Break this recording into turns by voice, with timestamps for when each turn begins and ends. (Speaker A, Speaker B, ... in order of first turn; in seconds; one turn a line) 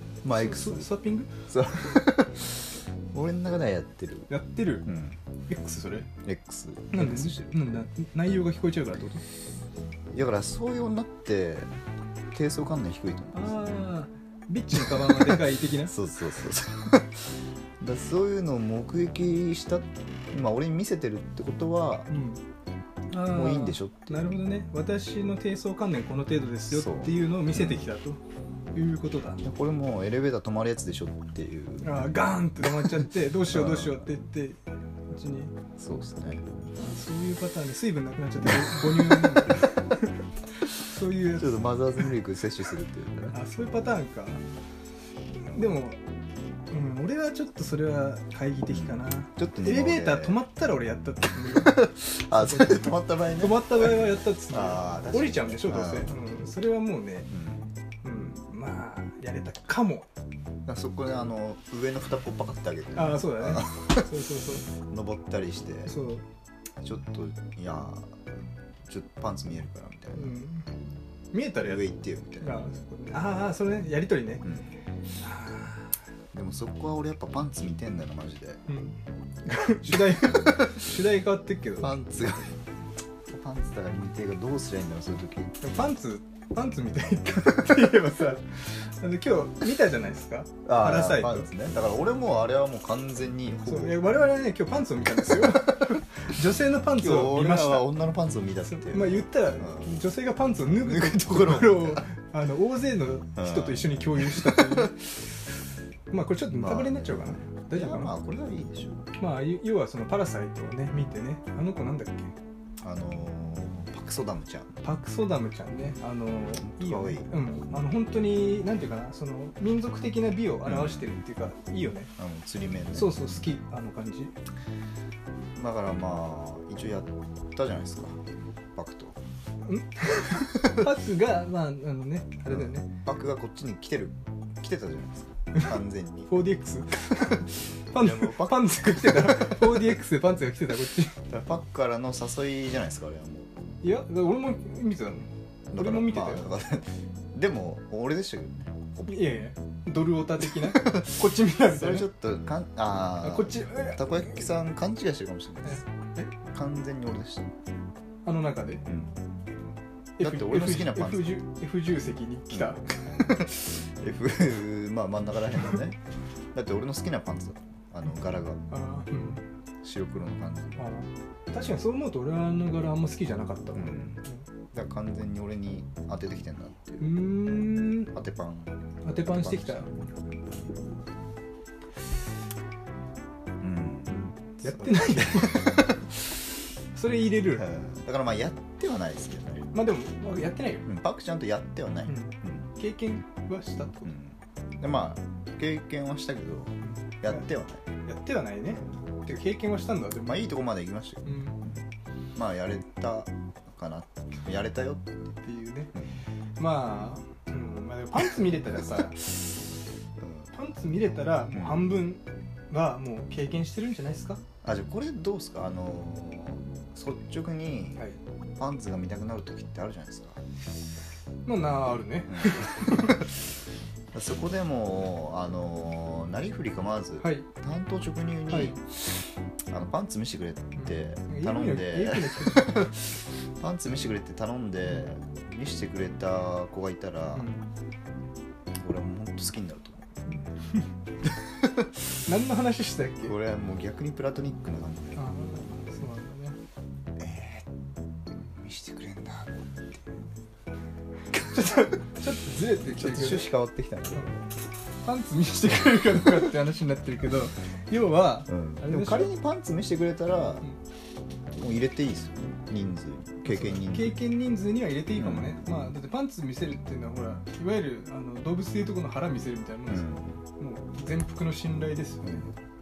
Speaker A: 0.2-0.9
Speaker B: 0.3-1.3
Speaker A: 1.5-4.3
Speaker B: 4.3-4.9
Speaker A: 4.9-5.2
Speaker B: 5.5-6.1
Speaker A: 6.2-7.6
Speaker B: 6.9-9.2
Speaker A: 10.1-11.7
Speaker A: 12.3-13.6
Speaker B: 13.3-16.0
Speaker A: 14.8-22.1
Speaker B: 22.1-22.4
Speaker B: 23.1-28.2
Speaker A: 23.2-24.2
Speaker A: 26.7-27.9
Speaker B: 28.8-29.4
Speaker A: 29.4-34.1
Speaker B: 31.8-35.5
Speaker A: 35.8-36.5
Speaker B: 36.8-40.2
Speaker A: 38.5-39.6
Speaker B: 40.7-42.1
Speaker A: 41.3-43.4
Speaker B: 43.3-44.4
Speaker B: 45.5-46.0
Speaker B: 46.7-57.3
Speaker A: 48.7-50.4
Speaker A: 51.5-56.1
Speaker A: 57.3-57.7
Speaker B: 58.0-60.1
Speaker A: 60.7-64.1
Speaker B: 62.9-64.7
Speaker A: 64.8-65.9
Speaker B: 65.9-66.2
Speaker A: 66.8-68.2
Speaker A: 68.8-70.3
Speaker B: 70.2-70.7
Speaker B: 71.3-71.8
Speaker A: 71.6-72.6
Speaker B: 72.4-74.5
Speaker B: 75.2-75.9
Speaker A: 76.3-78.6
Speaker B: 78.7-81.9
Speaker A: 79.9-80.8
Speaker A: 81.8-82.6
Speaker A: 83.3-85.6
Speaker B: 85.6-91.5
Speaker A: 90.7-94.1
Speaker B: 93.7-97.9
Speaker A: 95.4-96.0
Speaker A: 96.9-100.0
Speaker B: 98.7-105.1
Speaker A: 100.8-102.0
Speaker A: 103.4-104.9
Speaker B: 106.1-108.1
Speaker A: 106.5-109.0
Speaker B: 109.2-112.3
Speaker A: 112.8-114.8
Speaker B: 114.8-122.1
Speaker A: 116.6-117.3
Speaker A: 120.7-121.1
Speaker A: 122.2-123.2
Speaker B: 122.9-124.3
Speaker A: 125.6-128.2
Speaker A: 128.8-129.2
Speaker B: 129.7-132.9
Speaker A: 130.6-130.8
Speaker A: 132.5-136.3
Speaker B: 136.3-141.2
Speaker A: 137.9-139.5
Speaker A: 141.3-143.5
Speaker B: 143.8-146.5
Speaker A: 145.7-149.2
Speaker B: 149.1-152.1
Speaker A: 150.6-155.8
Speaker B: 153.2-154.3
Speaker B: 155.7-156.3
Speaker A: 156.4-157.5
Speaker B: 158.2-158.8
Speaker A: 158.9-159.1
Speaker B: 160.2-162.9
Speaker A: 160.2-161.4
Speaker A: 162.5-166.0
Speaker A: 166.5-168.6
Speaker B: 168.7-169.4
Speaker A: 169.8-170.9
Speaker B: 170.8-174.4
Speaker A: 173.7-174.2
Speaker A: 174.7-177.1
Speaker B: 177.0-178.1
Speaker A: 178.1-179.9
Speaker B: 179.0-179.9
Speaker A: 183.6-185.8
Speaker B: 184.1-186.1
Speaker B: 186.9-187.7
Speaker A: 187.6-189.7
Speaker B: 189.7-190.9
Speaker A: 190.8-192.7
Speaker B: 192.1-194.1
Speaker A: 194.0-197.8
Speaker B: 196.8-197.4
Speaker B: 198.1-200.4
Speaker A: 200.2-201.8
Speaker B: 201.2-201.6
Speaker A: 202.3-205.3
Speaker B: 205.4-205.9
Speaker B: 206.6-209.2
Speaker A: 210.2-210.5
Speaker B: 210.5-214.4
Speaker A: 211.5-211.9
Speaker A: 214.6-218.0
Speaker A: 218.6-220.4
Speaker B: 221.5-223.3
Speaker A: 222.3-223.1
Speaker A: 224.1-228.8
Speaker B: 227.2-227.5
Speaker B: 228.5-228.8
Speaker A: 229.7-237.5
Speaker B: 230.8-232.9
Speaker B: 237.3-237.6
Speaker A: 238.8-240.2
Speaker B: 240.4-240.9
Speaker A: 241.3-241.9
Speaker B: 242.3-243.3
Speaker A: 243.2-245.2
Speaker B: 245.2-246.6
Speaker A: 247.2-247.7
Speaker A: 248.3-249.6
Speaker B: 251.3-253.5
Speaker A: 252.9-254.5
Speaker B: 255.0-259.3
Speaker A: 258.5-260.7
Speaker A: 261.5-264.2
Speaker B: 263.5-272.5
Speaker A: 265.1-265.6
Speaker A: 269.9-270.4